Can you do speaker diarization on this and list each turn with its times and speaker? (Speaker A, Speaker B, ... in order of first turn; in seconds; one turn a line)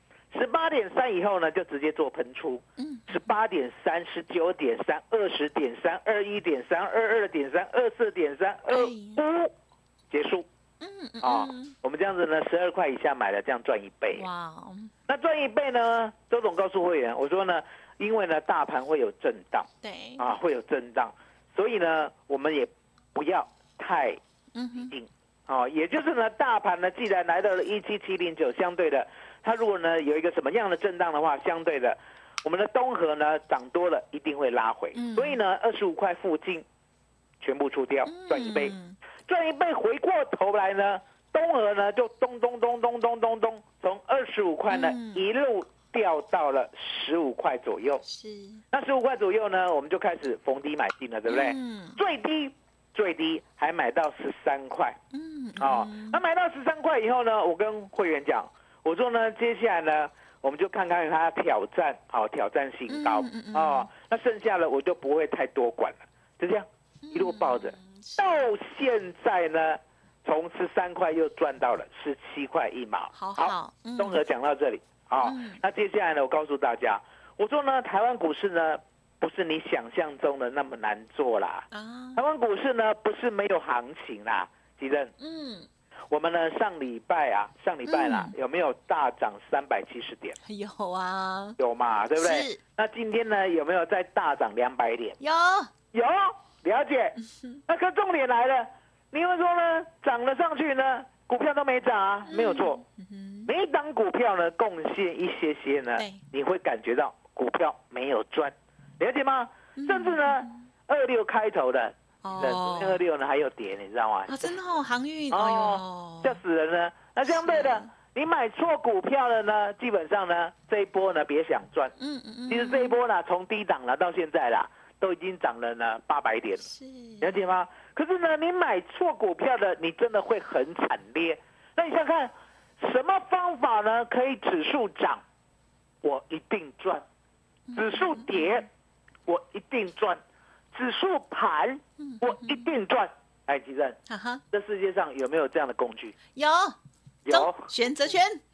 Speaker A: 0.3-9.5
Speaker B: 2.8-3.2
Speaker B: 8.7-9.2
Speaker A: 10.1-10.5
Speaker B: 10.8-11.7
Speaker A: 11.2-14.3
Speaker B: 14.2-14.9
Speaker A: 15.1-19.7
Speaker B: 19.8-20.3
Speaker A: 20.2-24.2
Speaker B: 24.6-24.9
Speaker A: 24.8-36.6
Speaker B: 35.0-35.4
Speaker A: 37.4-38.8
Speaker B: 38.1-39.0
Speaker A: 39.3-48.0
Speaker B: 44.7-45.2
Speaker B: 48.0-48.6
Speaker A: 48.7-55.0
Speaker B: 51.3-52.0
Speaker B: 55.1-56.2
Speaker A: 55.6-85.1
Speaker B: 62.9-63.9
Speaker B: 67.0-68.5
Speaker B: 73.2-74.2
Speaker B: 75.2-75.6
Speaker B: 81.7-82.2
Speaker B: 85.2-85.7
Speaker A: 86.1-90.4
Speaker B: 87.9-88.3
Speaker B: 90.5-91.6
Speaker A: 91.6-95.2
Speaker B: 92.2-92.6
Speaker B: 95.2-95.7
Speaker A: 95.9-97.2
Speaker A: 97.7-102.8
Speaker B: 102.3-103.5
Speaker A: 103.5-114.5
Speaker B: 109.8-110.6
Speaker B: 112.2-113.0
Speaker B: 114.3-116.4
Speaker A: 115.3-121.9
Speaker B: 117.3-117.9
Speaker B: 122.0-123.0
Speaker A: 122.5-126.6
Speaker B: 126.6-127.4
Speaker A: 127.2-135.2
Speaker A: 136.0-137.1
Speaker B: 137.7-138.7
Speaker A: 137.8-138.7
Speaker A: 139.3-140.2
Speaker A: 140.7-144.0
Speaker B: 142.0-142.7
Speaker B: 144.1-144.4
Speaker A: 144.5-146.2
Speaker B: 146.4-146.8
Speaker A: 147.3-147.7
Speaker B: 147.3-148.4